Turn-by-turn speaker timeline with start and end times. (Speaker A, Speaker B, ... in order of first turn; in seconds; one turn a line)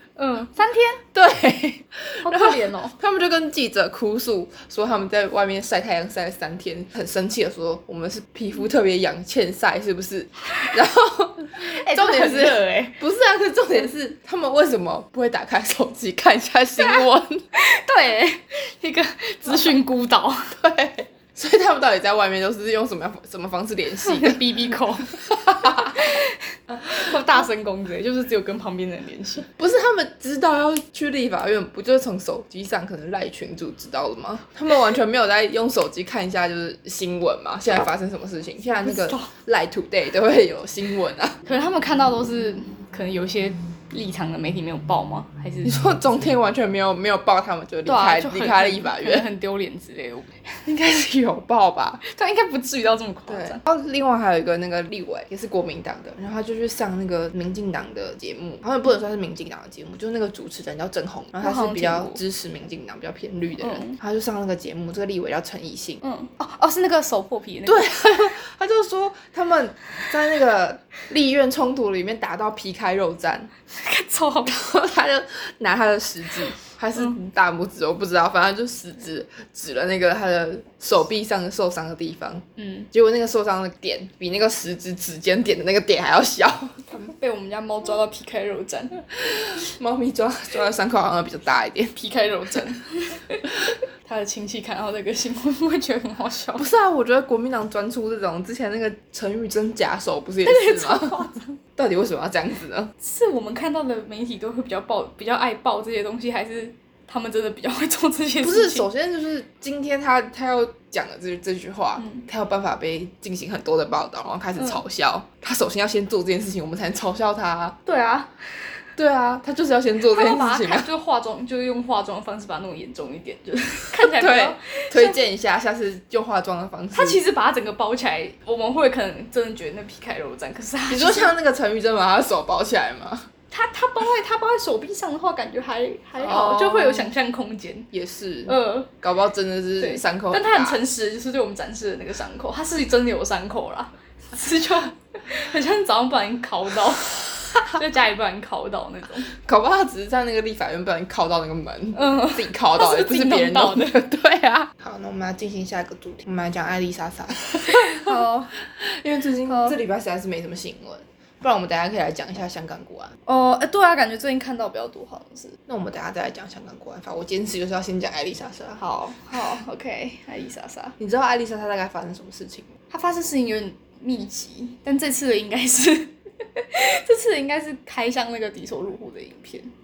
Speaker A: 0.2-1.0
Speaker B: 1.1-17.4
Speaker A: 2.2-3.0
Speaker A: 11.6-13.0
Speaker A: 17.5-20.6
Speaker B: 20.5-24.5
Speaker A: 24.0-29.5
Speaker B: 25.1-26.1
Speaker B: 26.7-27.2
Speaker B: 29.6-41.4
Speaker A: 38.8-39.3
Speaker A: 41.5-45.8
Speaker B: 45.6-49.3
Speaker A: 47.9-50.6
Speaker B: 50.6-52.0
Speaker A: 52.0-53.6
Speaker B: 53.3-66.0
Speaker A: 61.4-62.2
Speaker A: 63.6-64.0
Speaker A: 66.0-68.2
Speaker B: 67.7-73.5
Speaker A: 73.7-74.7
Speaker B: 74.5-87.1
Speaker A: 82.6-82.9
Speaker A: 86.9-89.0
Speaker B: 89.2-92.0
Speaker A: 92.0-96.7
Speaker B: 96.6-102.9
Speaker A: 100.4-101.6
Speaker A: 103.0-108.9
Speaker B: 108.4-117.8
Speaker A: 112.0-112.3
Speaker A: 114.6-114.8
Speaker A: 117.9-118.7
Speaker B: 119.0-120.9
Speaker A: 120.1-125.2
Speaker B: 123.9-127.2
Speaker A: 126.9-131.3
Speaker B: 130.9-133.3
Speaker A: 133.5-137.9
Speaker B: 136.2-137.1
Speaker B: 137.9-140.8
Speaker A: 138.5-138.9
Speaker A: 139.8-149.3
Speaker B: 149.3-163.1
Speaker A: 151.9-154.0
Speaker A: 157.7-158.5
Speaker A: 159.4-159.8
Speaker A: 163.3-165.6
Speaker B: 165.7-168.8
Speaker A: 168.8-171.0
Speaker B: 171.0-172.7
Speaker A: 172.9-179.7